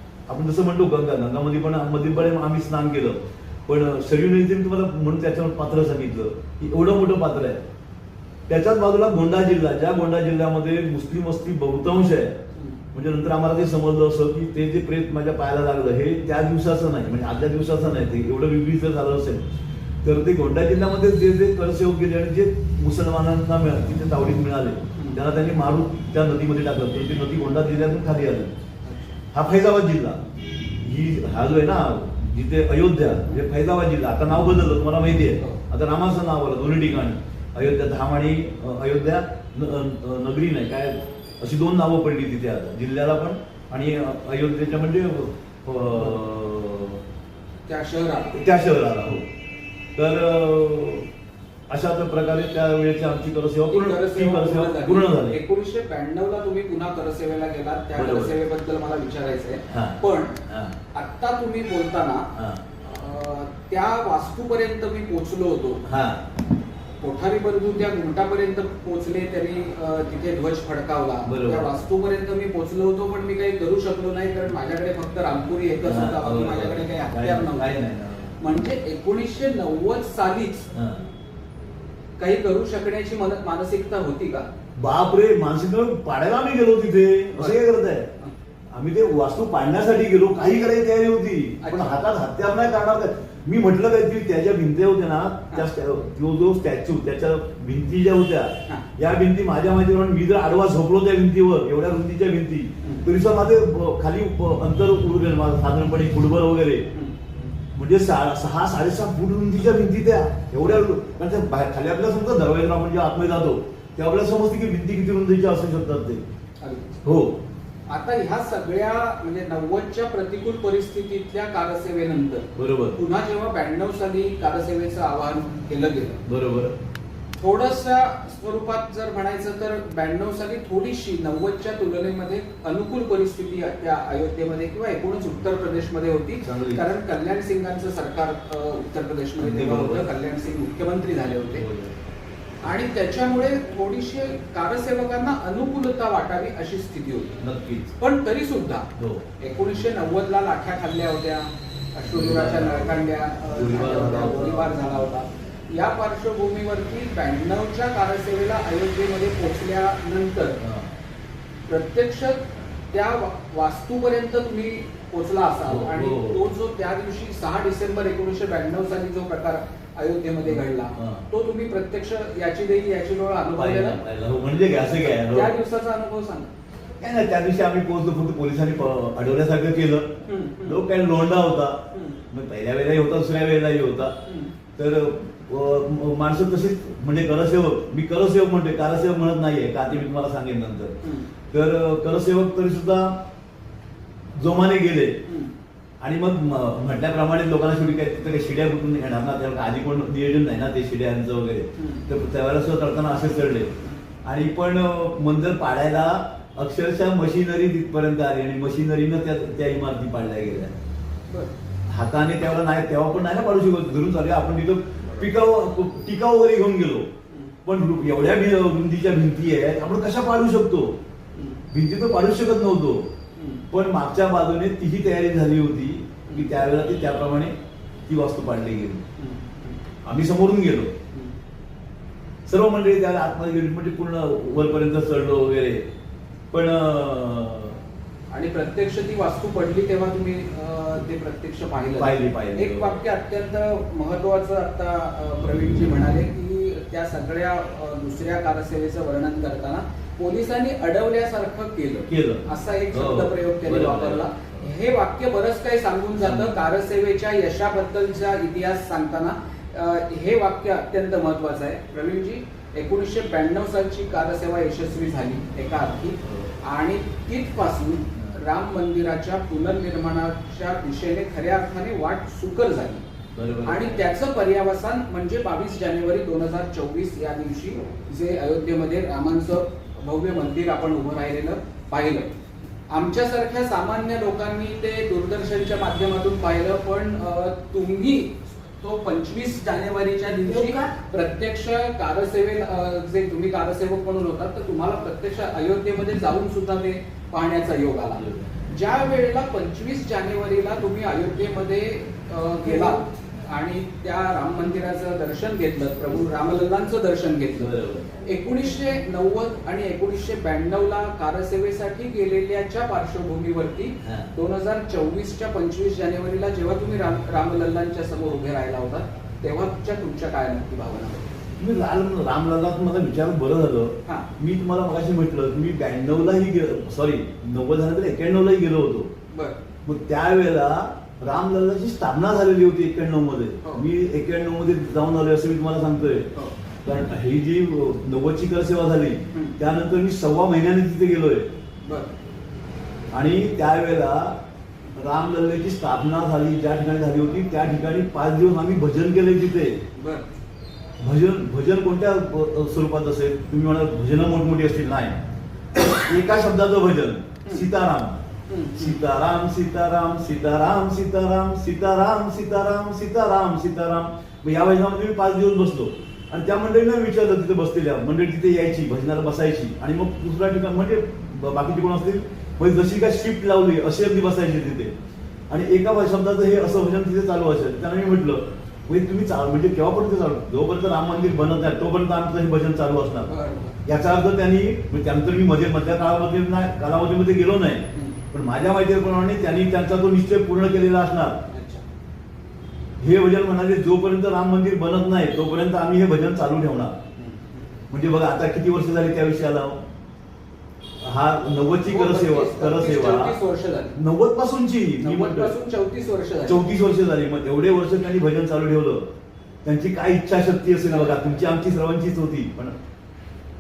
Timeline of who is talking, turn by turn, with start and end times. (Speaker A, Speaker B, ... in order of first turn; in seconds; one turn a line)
Speaker A: 0.3-7.6
Speaker A: 8.5-12.4
Speaker A: 12.9-19.4
Speaker A: 20.0-28.5
Speaker B: 28.9-29.2
Speaker A: 29.3-30.2
Speaker A: 30.8-47.0
Speaker B: 47.7-48.4
Speaker A: 48.3-49.3
Speaker A: 50.0-51.1
Speaker A: 51.7-55.4
Speaker B: 53.7-60.4
Speaker A: 58.0-58.4
Speaker A: 59.7-60.8
Speaker B: 60.9-62.3
Speaker A: 62.3-62.6
Speaker B: 62.8-65.8
Speaker A: 65.8-66.2
Speaker B: 67.0-77.8
Speaker A: 71.2-71.7
Speaker A: 75.8-78.4
Speaker B: 78.4-80.7
Speaker A: 80.7-81.1
Speaker B: 82.2-84.5
Speaker A: 84.8-88.1
Speaker B: 87.3-87.6
Speaker A: 88.7-106.9
Speaker B: 91.6-92.0
Speaker B: 106.9-107.5
Speaker A: 107.7-116.2
Speaker B: 116.6-117.0
Speaker A: 117.0-117.4
Speaker B: 117.9-126.2
Speaker A: 122.6-123.0
Speaker A: 126.2-126.7
Speaker B: 127.4-141.7
Speaker A: 136.4-136.8
Speaker A: 139.4-140.1
Speaker A: 141.5-141.9
Speaker B: 142.6-147.3
Speaker A: 147.4-148.0
Speaker B: 148.0-160.6
Speaker A: 149.0-149.2
Speaker A: 152.1-154.8
Speaker A: 160.6-160.9
Speaker B: 161.7-174.0
Speaker A: 165.7-166.4
Speaker A: 170.4-171.2
Speaker A: 173.6-175.6
Speaker B: 175.0-176.5
Speaker A: 177.0-180.1
Speaker B: 180.3-180.8
Speaker A: 180.6-184.2
Speaker B: 181.9-182.2
Speaker B: 184.3-184.5
Speaker A: 184.8-191.0
Speaker B: 191.0-191.3
Speaker A: 191.5-193.2
Speaker A: 194.3-195.2
Speaker B: 195.3-195.5
Speaker A: 196.0-203.7
Speaker B: 201.8-202.1
Speaker A: 204.2-210.7
Speaker A: 211.9-217.1
Speaker B: 217.3-217.6
Speaker A: 217.7-221.0
Speaker B: 221.3-221.6
Speaker A: 221.7-223.1
Speaker B: 223.4-223.6
Speaker A: 223.7-227.5
Speaker A: 228.1-229.1
Speaker B: 229.2-229.8
Speaker A: 230.1-230.9
Speaker A: 232.5-235.8
Speaker A: 236.5-237.8
Speaker B: 238.3-273.0
Speaker A: 242.0-243.0
Speaker A: 252.1-254.6
Speaker A: 256.2-256.6
Speaker A: 266.2-266.5
Speaker A: 273.4-274.0
Speaker B: 273.6-282.3
Speaker B: 282.9-321.2
Speaker A: 298.1-298.5
Speaker A: 307.6-308.1
Speaker A: 314.0-314.3
Speaker A: 321.6-329.1
Speaker B: 329.3-329.6
Speaker A: 329.9-336.3
Speaker A: 336.9-341.5
Speaker B: 341.8-342.1
Speaker A: 343.1-344.4
Speaker A: 344.9-349.8
Speaker B: 349.9-350.2
Speaker A: 351.0-355.2
Speaker A: 355.9-358.2
Speaker B: 358.5-359.0
Speaker A: 358.8-374.9
Speaker A: 375.5-383.3
Speaker B: 383.3-383.8
Speaker A: 383.8-391.4
Speaker B: 391.5-391.8
Speaker A: 393.0-397.0
Speaker B: 397.2-397.7
Speaker A: 397.9-399.8
Speaker A: 401.0-403.4
Speaker B: 401.8-404.0
Speaker A: 403.9-405.6
Speaker B: 405.0-406.6
Speaker A: 406.5-409.1
Speaker A: 409.6-412.8
Speaker B: 410.9-411.1